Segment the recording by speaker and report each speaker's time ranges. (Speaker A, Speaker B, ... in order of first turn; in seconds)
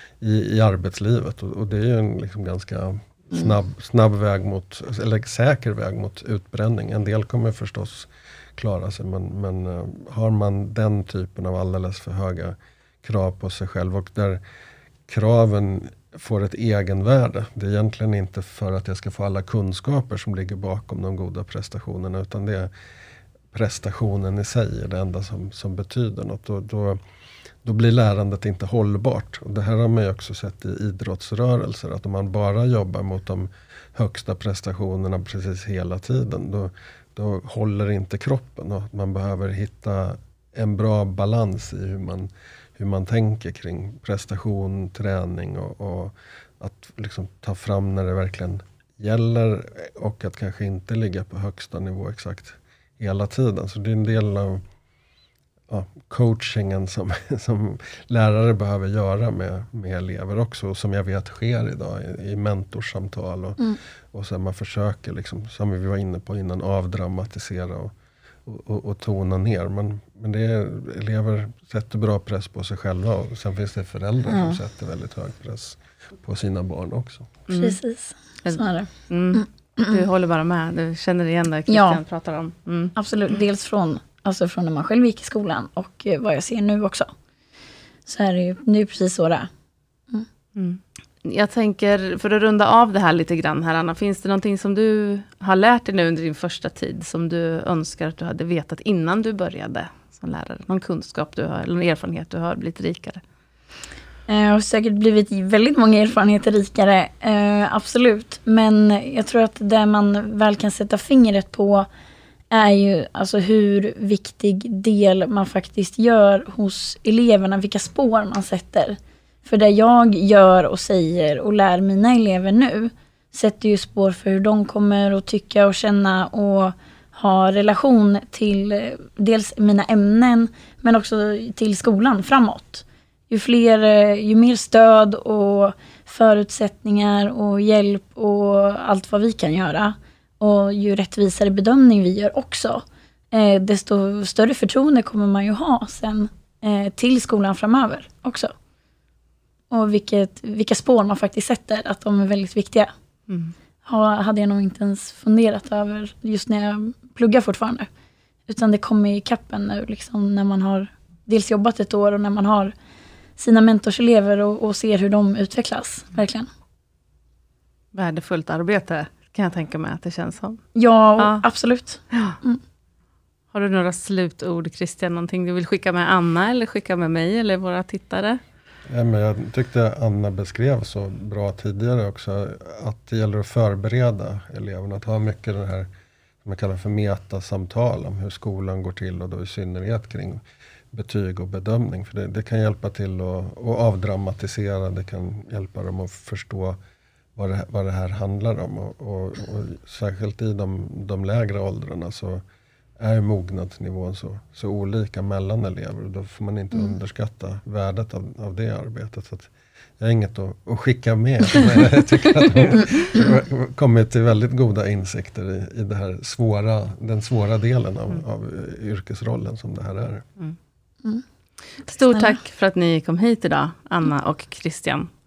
Speaker A: 0.2-14.4, 15.1-22.7, 23.5-27.0, 27.6-54.6, 55.7-67.9, 68.5-77.3, 178.9-185.9, 186.4-190.4, 190.9-196.8, 197.3-202.4, 203.0-220.3
Speaker B: 74.3-74.5, 77.5-80.0, 81.7-82.0, 83.0-87.1, 88.0-89.5, 104.3-111.9, 112.5-148.5, 149.7-152.9, 153.8-157.9, 158.5-162.7, 163.4-166.5, 170.7-172.6, 222.1-222.4
Speaker C: 77.5-77.8, 78.4-82.9, 90.5-103.2, 153.3-153.5, 167.9-170.6, 171.2-171.4, 172.1-172.4, 173.5-178.4, 221.8-225.1